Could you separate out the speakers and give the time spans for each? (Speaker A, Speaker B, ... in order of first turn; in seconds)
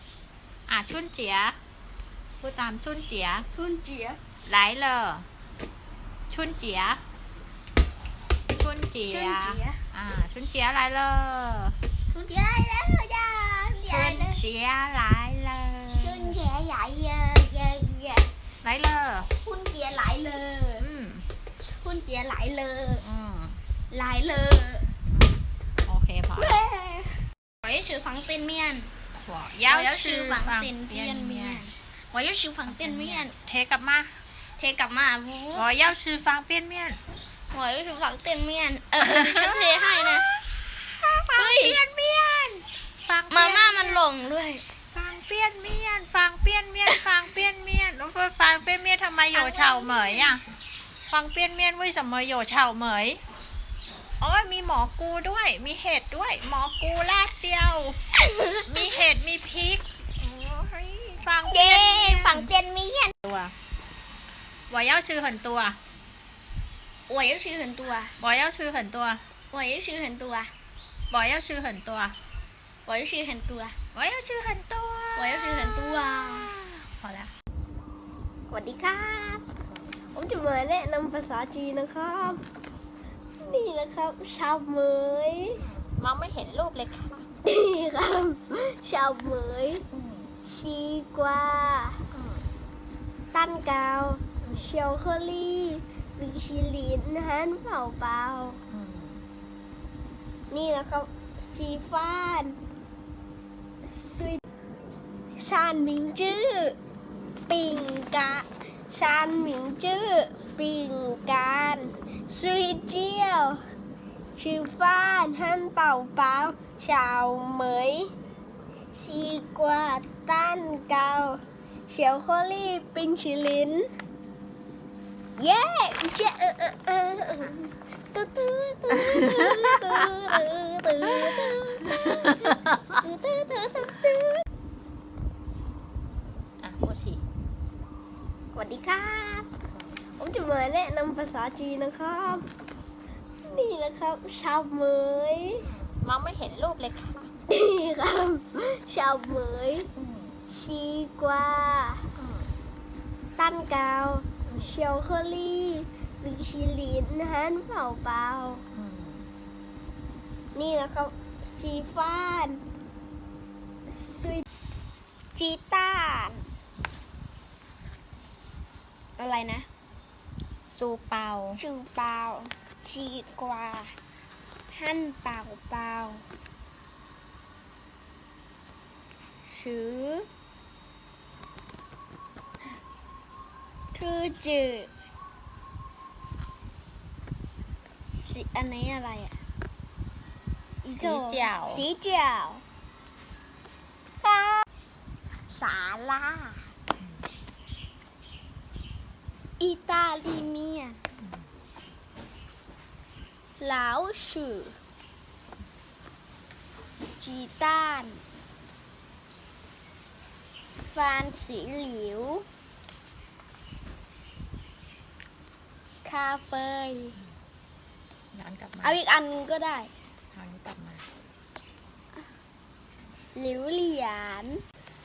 Speaker A: 0.7-1.6, 2.4-3.5, 4.5-5.3, 6.3-7.0, 8.5-11.8, 13.9-16.4, 18.6-19.3, 20.8-21.3, 23.0-23.6, 25.1-26.6, 29.1-31.6, 32.7-34.1, 35.5-37.0, 39.0-40.4, 41.3-44.0, 44.9-50.4, 51.1-53.2, 54.2-58.0, 58.7-62.5, 63.2-63.5, 64.7-65.8, 68.2-69.2, 71.1-72.2, 73.9-77.3, 85.6-87.3, 89.9-90.4, 92.1-92.5, 94.4-94.7, 98.7-99.2, 132.4-132.8, 136.6-137.2, 145.6-147.3, 150.0-150.4, 152.2-152.6, 154.4-154.7, 158.7-159.3, 170.7-171.6, 190.9-191.8, 218.3-219.0, 220.3-221.1
Speaker B: 3.5-4.2, 9.1-9.8, 12.1-14.4, 15.9-18.3, 19.4-20.8, 21.5-23.0, 23.9-24.9, 26.4-28.9, 29.6-33.4, 34.6-35.7, 37.5-40.3, 41.0-41.8, 43.3-44.6, 49.3-50.3, 58.3-58.6, 61.5-63.1, 67.1-68.2, 69.5-70.5, 72.9-73.8, 75.2-76.5, 78.5-79.4, 80.1-82.4, 83.4-85.6, 87.4-89.8, 90.4-92.0, 93.3-98.6, 100.5-102.6, 103.8-104.4, 105.4-106.8, 107.5-113.6, 114.4-118.1, 118.9-123.9, 125.4-134.4, 138.6-139.5, 140.2-142.4, 143.4-145.7, 147.5-149.9, 150.5-152.1, 153.4-158.6, 160.5-162.6, 163.9-164.5, 165.3-166.4, 169.2-169.7, 171.6-173.9, 174.7-176.2, 179.5-180.3, 183.9-184.9, 188.2-189.4, 190.8-192.6, 194.2-194.7, 195.5-196.7, 199.6-201.0, 203.6-204.8, 207.2-208.2, 210.9-212.4, 216.0-217.2, 218.8-219.9, 223.3-224.6